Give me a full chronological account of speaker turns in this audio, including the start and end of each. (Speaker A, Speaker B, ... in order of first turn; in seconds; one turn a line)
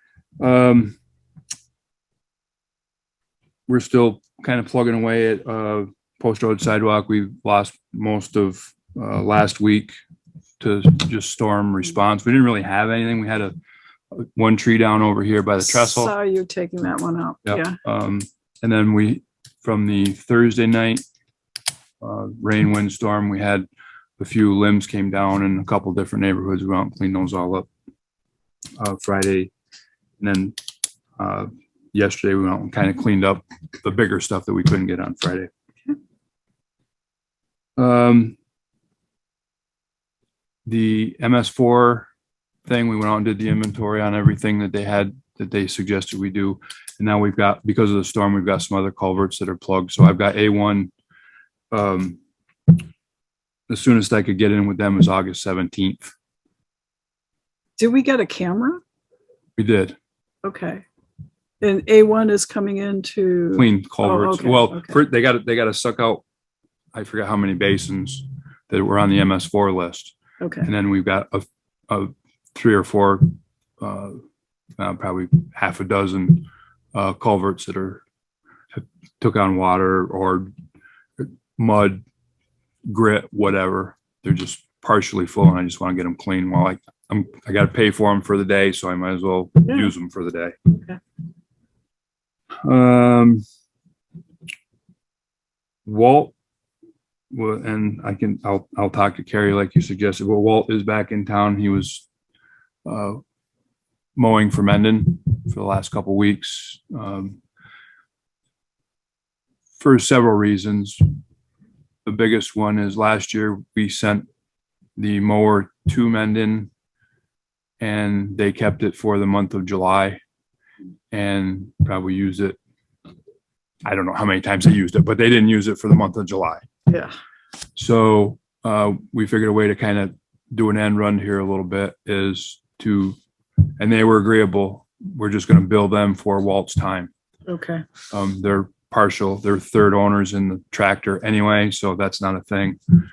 Speaker A: 0.4-0.9
Speaker A: 3.7-9.9
Speaker A: 10.6-13.5
Speaker A: 14.1-16.1
Speaker B: 15.6-17.8
Speaker A: 17.4-21.0
Speaker A: 22.0-23.7
Speaker A: 24.2-27.7
Speaker A: 28.8-29.5
Speaker A: 30.2-30.6
Speaker A: 31.2-35.5
Speaker A: 37.8-38.3
Speaker A: 40.7-42.1
Speaker A: 42.7-50.9
Speaker A: 51.7-52.2
Speaker A: 53.7-56.1
Speaker B: 57.8-58.8
Speaker A: 59.6-60.0
Speaker B: 60.4-60.8
Speaker B: 61.6-65.0
Speaker A: 63.5-66.2
Speaker A: 66.9-74.2
Speaker B: 70.4-70.7
Speaker A: 74.8-78.0
Speaker A: 78.7-80.5
Speaker A: 81.2-82.0
Speaker A: 82.9-90.6
Speaker B: 89.6-89.9
Speaker B: 90.7-91.0
Speaker A: 92.6-93.4
Speaker A: 95.8-96.3
Speaker A: 97.3-102.0
Speaker A: 102.8-103.2
Speaker A: 104.2-107.4
Speaker A: 109.8-111.0
Speaker A: 112.0-114.2
Speaker A: 115.0-116.7
Speaker A: 117.8-120.2
Speaker A: 121.1-122.6
Speaker A: 123.8-126.6
Speaker B: 126.9-127.1
Speaker A: 127.8-133.2
Speaker A: 133.8-137.1
Speaker B: 137.5-137.8
Speaker A: 138.1-142.8